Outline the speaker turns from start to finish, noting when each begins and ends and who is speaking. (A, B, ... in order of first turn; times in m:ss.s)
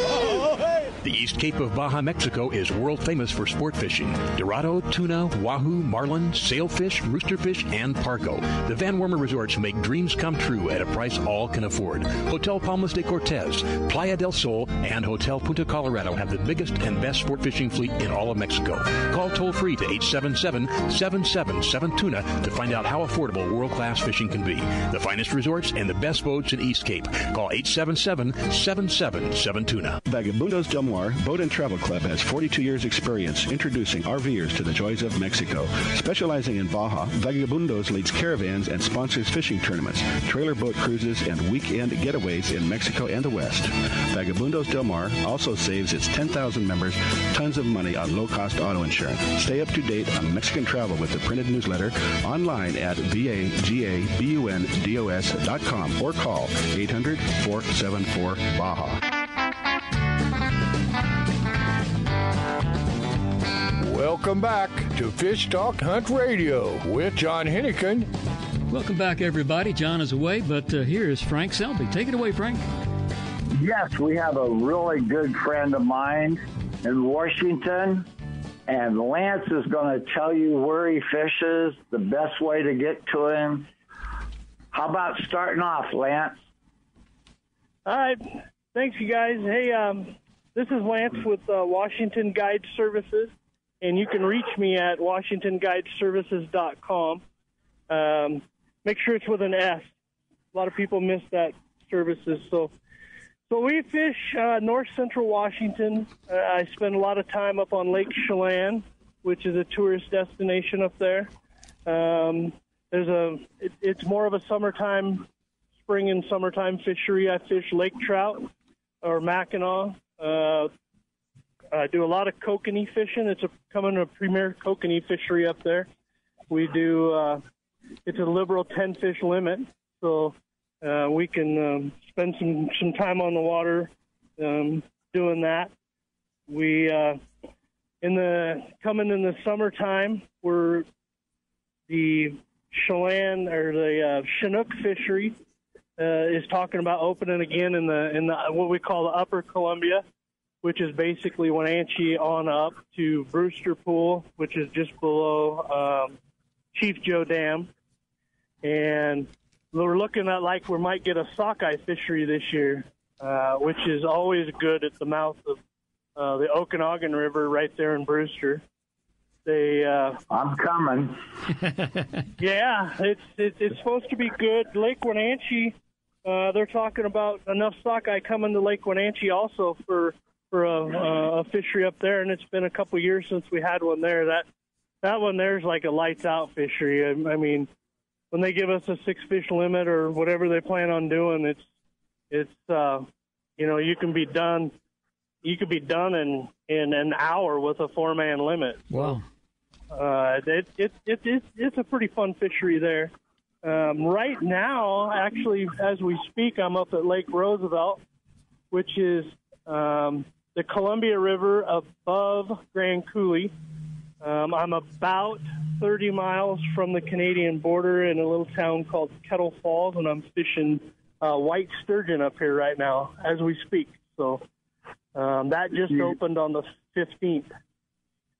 0:01.0-0:30.0 A
0:30.0-0:59.0 B
1:03.8-1:08.1 C
1:08.7-1:12.6 D
1:13.6-1:18.1 E
1:18.7-1:23.7 E
1:24.7-1:26.4 E
1:27.9-1:37.2 F
1:37.9-1:39.9 F
1:40.5-1:42.7 F
1:43.5-1:51.3 F
1:51.9-1:55.3 F
1:55.8-1:58.5 F
1:59.0-2:00.7 F
2:01.7-2:05.9 F
2:06.5-2:07.4 F
2:08.1-2:15.7 F
2:16.5-2:17.2 F
2:18.0-2:20.9 F
2:21.9-2:25.4 F
2:26.0-2:30.0 F
2:30.6-2:36.2 F
2:36.7-2:37.7 F
2:38.6-2:45.6 F
2:46.2-2:48.6 F
2:49.5-2:50.2 F
2:50.3-2:51.2 E
2:52.4-3:04.5 F
3:05.0-3:07.7 F
3:08.3-3:11.7 F
3:12.3-3:13.1 F
3:13.6-3:14.7 F
3:15.4-3:19.2 F
3:18.9-3:19.2 D
3:19.9-3:23.1 F
3:23.6-3:28.0 F
3:28.7-3:33.5 F
3:34.2-3:44.4 F
3:45.2-3:47.5 F